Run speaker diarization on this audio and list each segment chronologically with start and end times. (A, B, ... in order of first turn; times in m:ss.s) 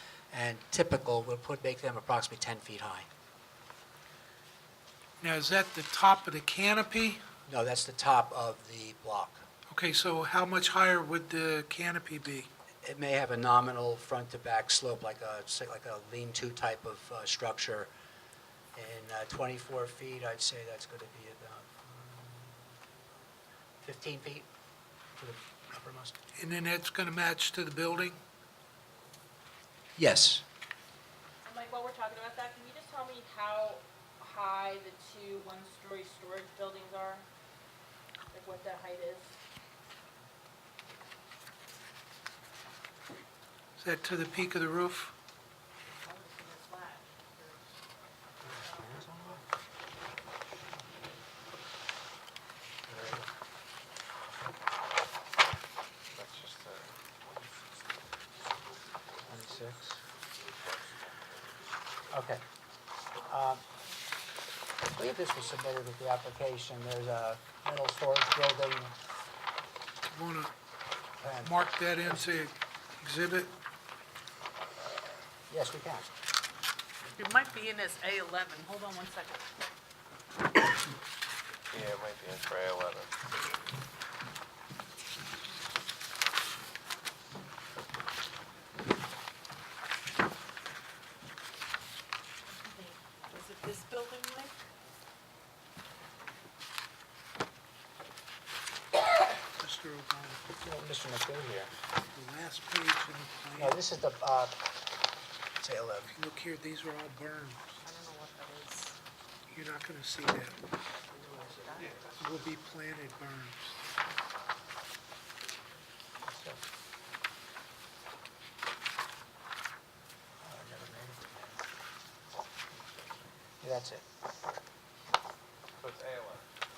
0:00.3-0:03.1 A
0:05.2-0:07.2 B
0:07.5-0:09.4 A
0:09.7-0:12.5 B
0:12.8-0:17.9 A
0:18.7-0:22.7 A
0:23.8-0:24.5 A
0:25.2-0:26.2 A
0:26.4-0:28.2 B
0:30.0-0:30.4 A
0:31.4-0:37.3 C
0:38.3-0:39.3 C
0:43.8-0:45.1 B
0:46.0-0:47.6 C
0:48.4-0:49.4 A
0:48.6-0:49.0 C
0:52.9-0:53.3 A
0:56.1-0:57.0 D
0:59.2-1:00.0 A
1:00.5-1:01.2 D
1:02.1-1:02.4 A
1:03.3-1:03.6 A
1:04.9-1:09.0 A
1:10.1-1:10.5 B
1:11.2-1:11.6 A
1:11.4-1:13.5 B
1:15.5-1:16.1 A
1:17.2-1:19.4 E
1:21.7-1:23.1 D
1:33.3-1:34.6 E
1:39.6-1:40.4 B
1:40.6-1:41.7 A
1:42.1-1:43.8 B
1:43.6-1:44.5 A
1:45.6-1:46.1 A
1:46.2-1:47.8 B
1:47.8-1:49.0 E
1:49.5-1:50.6 B
1:51.2-1:52.1 E
1:51.8-1:52.1 D
1:52.2-1:53.8 B
1:56.2-1:56.6 A
2:00.4-2:01.6 A
2:03.6-2:04.0 A
2:05.8-2:06.4 D